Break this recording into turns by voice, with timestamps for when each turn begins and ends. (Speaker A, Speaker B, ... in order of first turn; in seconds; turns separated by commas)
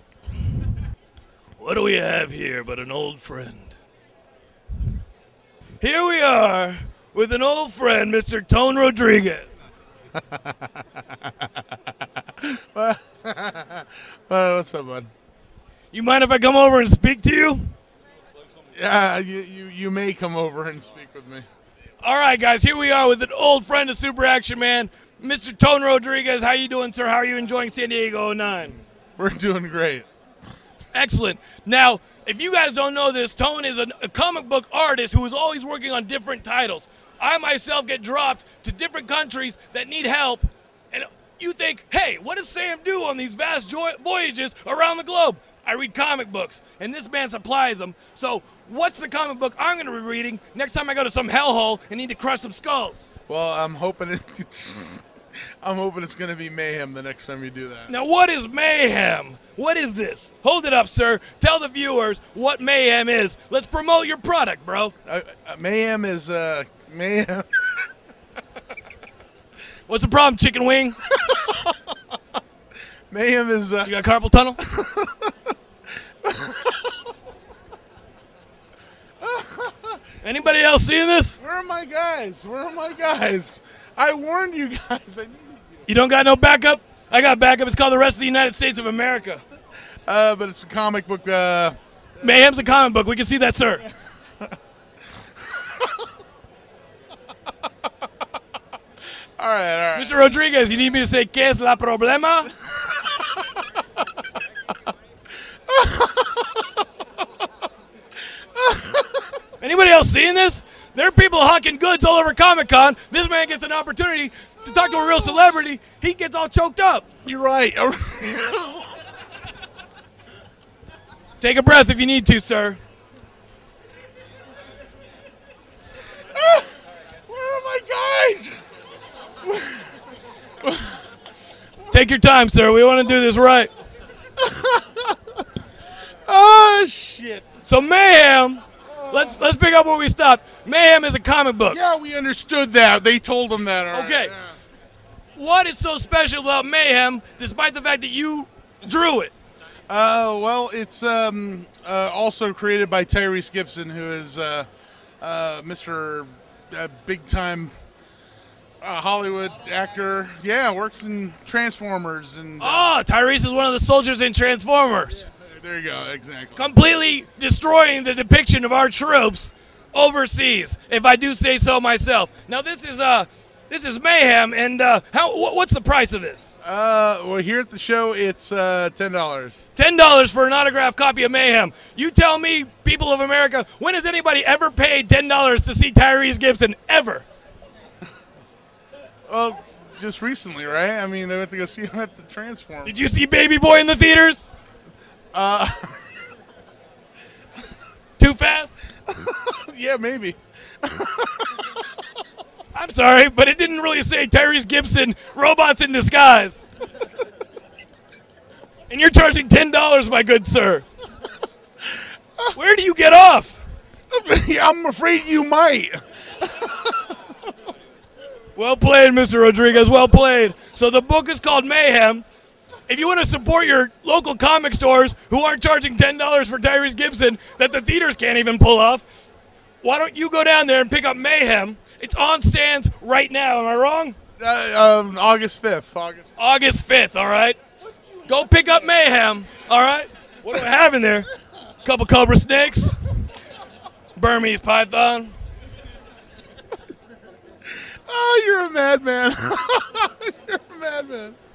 Speaker A: 1.6-3.8, Speaker A: 5.8-9.5, Speaker B: 12.4-15.1, Speaker A: 15.9-17.7, Speaker B: 18.7-21.4, Speaker A: 22.0-28.8, Speaker B: 29.2-30.1, Speaker A: 30.9-53.1, Speaker B: 53.3-55.0, Speaker B: 55.6-57.9, Speaker A: 57.9-64.9, Speaker B: 65.0-67.5, Speaker A: 69.9-71.0, Speaker B: 73.1-73.9, Speaker A: 73.8-74.6, Speaker B: 74.6-75.3, Speaker B: 76.2-76.7, Speaker B: 79.2-80.0, Speaker A: 80.2-81.4, Speaker B: 81.4-85.8, Speaker A: 85.9-89.4, Speaker B: 90.1-92.3, Speaker A: 92.2-93.8, Speaker B: 99.4-100.1, Speaker A: 99.9-102.5, Speaker B: 105.7-106.5, Speaker B: 108.6-109.1, Speaker A: 109.6-117.2, Speaker B: 117.2-118.8, Speaker A: 121.4-122.8, Speaker B: 126.3-126.7, Speaker B: 127.3-128.6, Speaker B: 129.4-129.9, Speaker B: 130.6-131.0, Speaker A: 131.9-133.7, Speaker B: 134.4-135.1, Speaker B: 136.2-137.4, Speaker A: 137.6-141.8, Speaker B: 138.8-139.4, Speaker B: 141.7-144.5, Speaker A: 143.9-144.3, Speaker A: 145.3-149.3, Speaker B: 149.9-154.7, Speaker B: 155.2-157.7, Speaker B: 158.8-162.8, Speaker A: 162.6-165.2, Speaker B: 165.2-166.7, Speaker A: 166.6-176.5, Speaker B: 176.6-179.7, Speaker A: 179.8-187.2, Speaker B: 189.3-192.9, Speaker A: 192.8-194.4, Speaker B: 195.3-195.9, Speaker A: 198.2-198.8, Speaker B: 199.1-201.5, Speaker A: 202.7-206.6, Speaker A: 208.9-210.8, Speaker A: 212.6-213.6, Speaker B: 214.1-216.8, Speaker A: 218.6-222.2, Speaker A: 222.9-229.1, Speaker A: 229.8-234.2, Speaker B: 234.4-236.3, Speaker A: 236.4-237.6, Speaker A: 238.2-241.3, Speaker A: 241.8-243.0, Speaker A: 244.2-245.3, Speaker B: 248.1-251.3